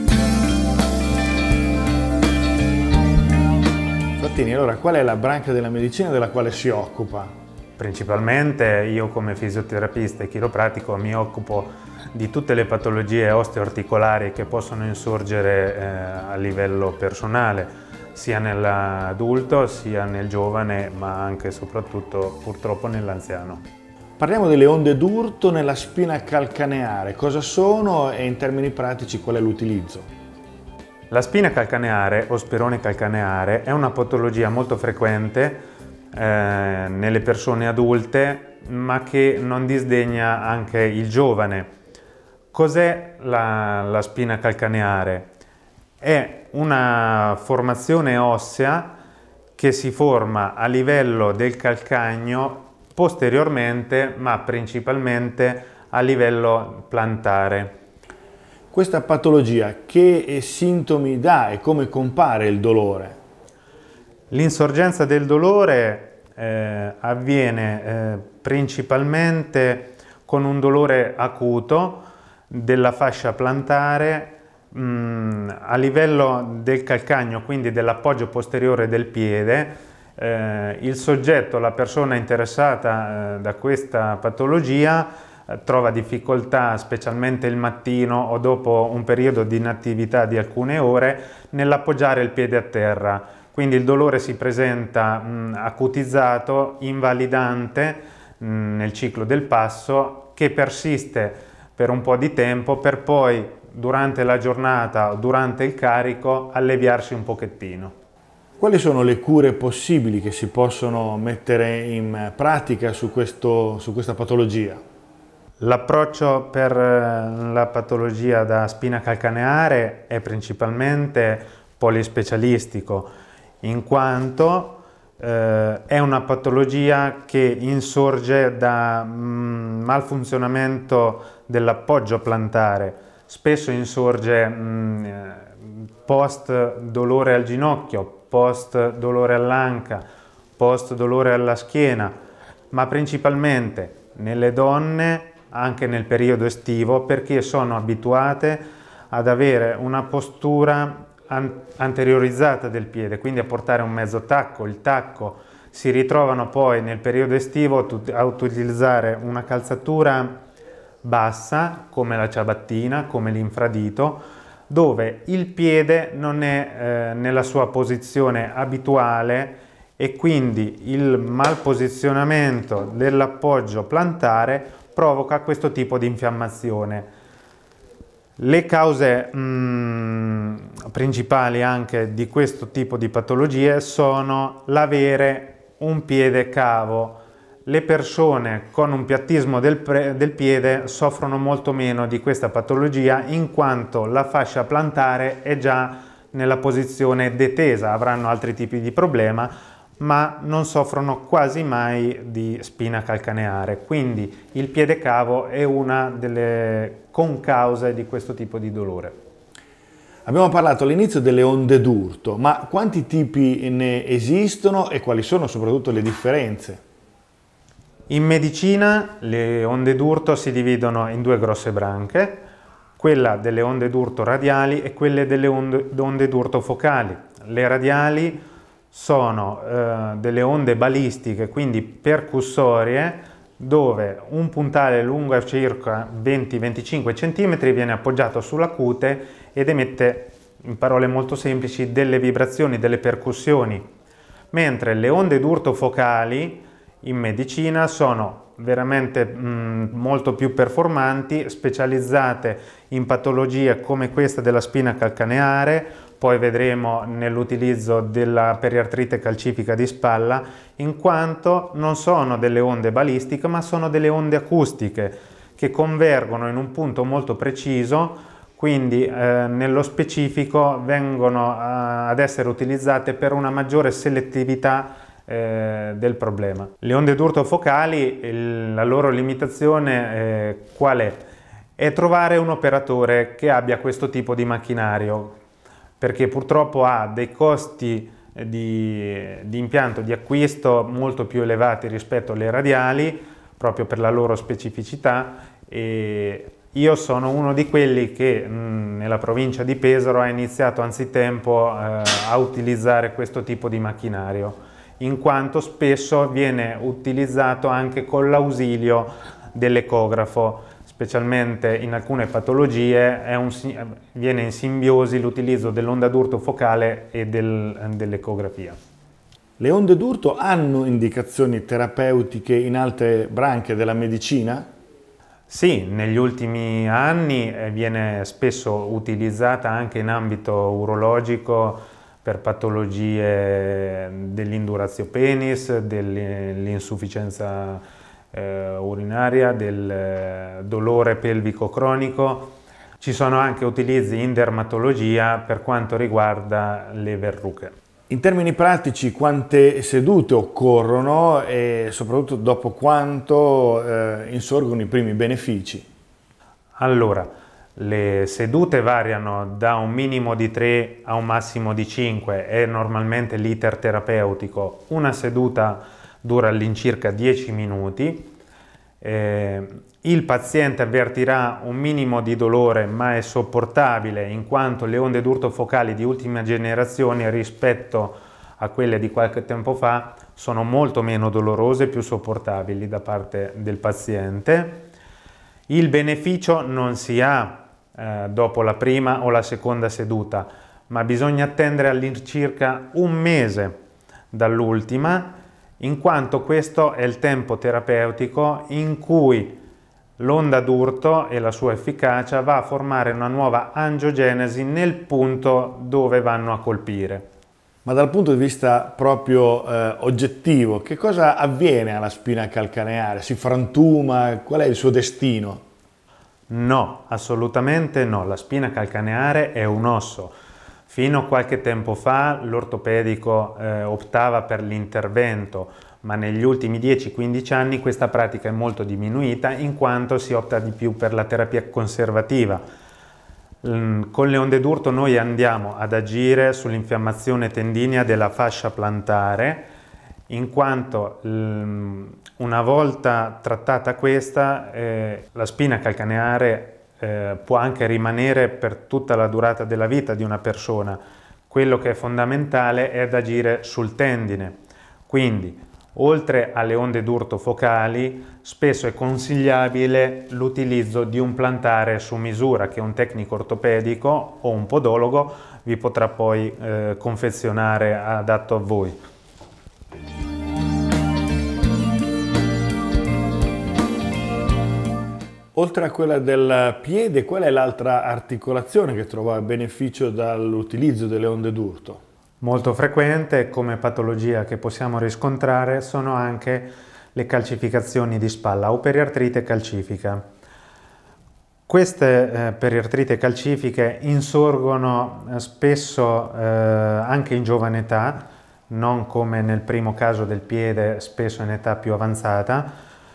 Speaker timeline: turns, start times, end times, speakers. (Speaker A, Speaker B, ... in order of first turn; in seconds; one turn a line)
Speaker A: 4.2-7.3
Speaker B: 7.8-23.6
Speaker A: 24.2-30.1
Speaker B: 31.1-41.7
Speaker B: 42.5-45.3
Speaker B: 46.0-48.9
Speaker B: 49.6-57.8
Speaker A: 58.7-63.2
Speaker B: 64.3-108.0
Speaker A: 108.6-114.8
Speaker B: 115.6-123.1
Speaker B: 123.6-140.0
Speaker B: 140.6-142.1
Speaker B: 142.7-160.4
Speaker B: 161.0-177.1
Speaker B: 178.4-209.2
Speaker A: 210.3-216.8
Speaker B: 218.1-222.5
Speaker B: 223.0-243.9
Speaker B: 244.5-281.2
Speaker B: 281.8-285.4
Speaker B: 286.0-318.8
Speaker A: 319.6-324.7
Speaker B: 325.5-347.8
Speaker A: 348.1-355.9
Speaker B: 356.8-368.3
Speaker B: 369.0-384.9
Speaker B: 385.7-393.8
Speaker B: 394.3-399.6
Speaker B: 400.2-407.3
Speaker A: 407.9-415.6
Speaker B: 416.5-420.4
Speaker B: 420.9-432.6
Speaker B: 433.6-439.7
Speaker B: 440.3-454.6
Speaker B: 455.1-469.0
Speaker A: 475.6-482.0
Speaker B: 482.4-490.2
Speaker B: 491.7-502.7